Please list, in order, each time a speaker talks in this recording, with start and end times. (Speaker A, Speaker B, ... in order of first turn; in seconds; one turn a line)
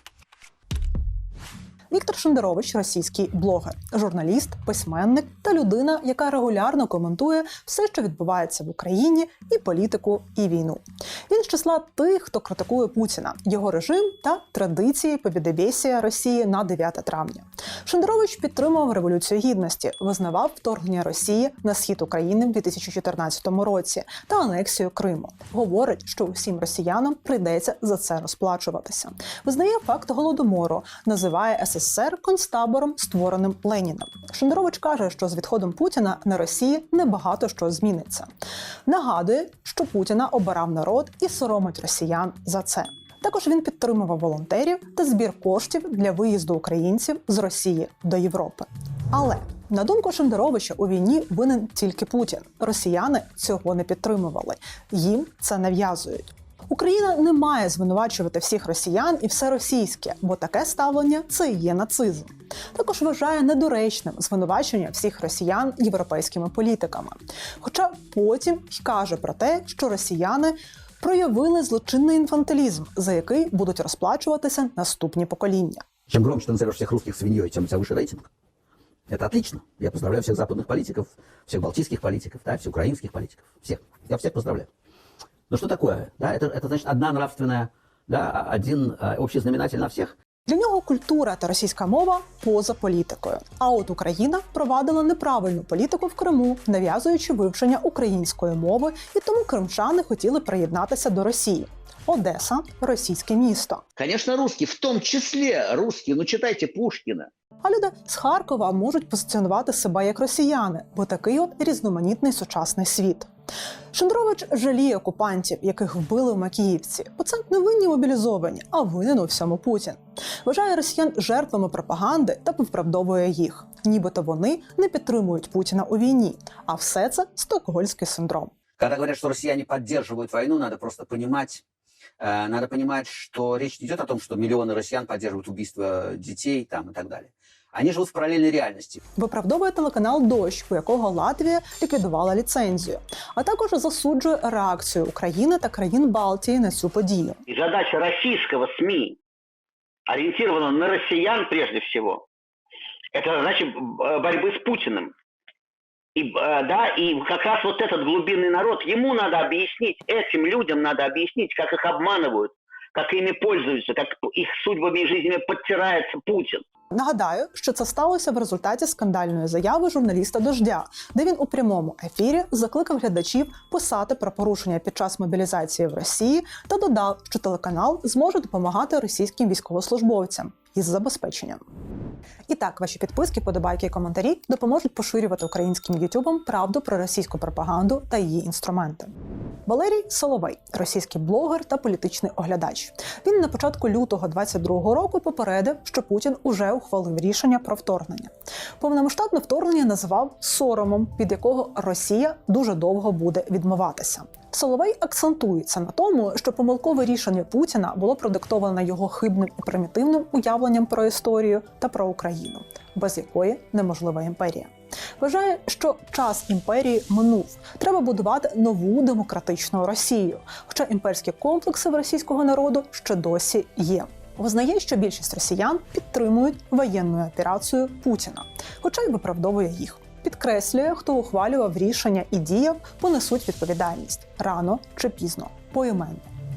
Speaker A: 1.9-38.3
Speaker A: 38.9-75.8
Speaker B: 76.1-78.3
Speaker B: 79.1-84.7
Speaker B: 85.5-90.1
Speaker A: 90.5-103.8
Speaker C: 104.0-107.3
Speaker A: 107.6-113.3
Speaker A: 113.9-128.5
Speaker B: 128.8-131.6
Speaker B: 132.2-139.0
Speaker A: 139.2-147.4
Speaker D: 147.5-149.2
Speaker D: 150.1-152.2
Speaker D: 153.1-155.1
Speaker D: 156.2-166.6
Speaker A: 166.9-181.6
Speaker A: 182.5-189.1
Speaker A: 189.7-236.3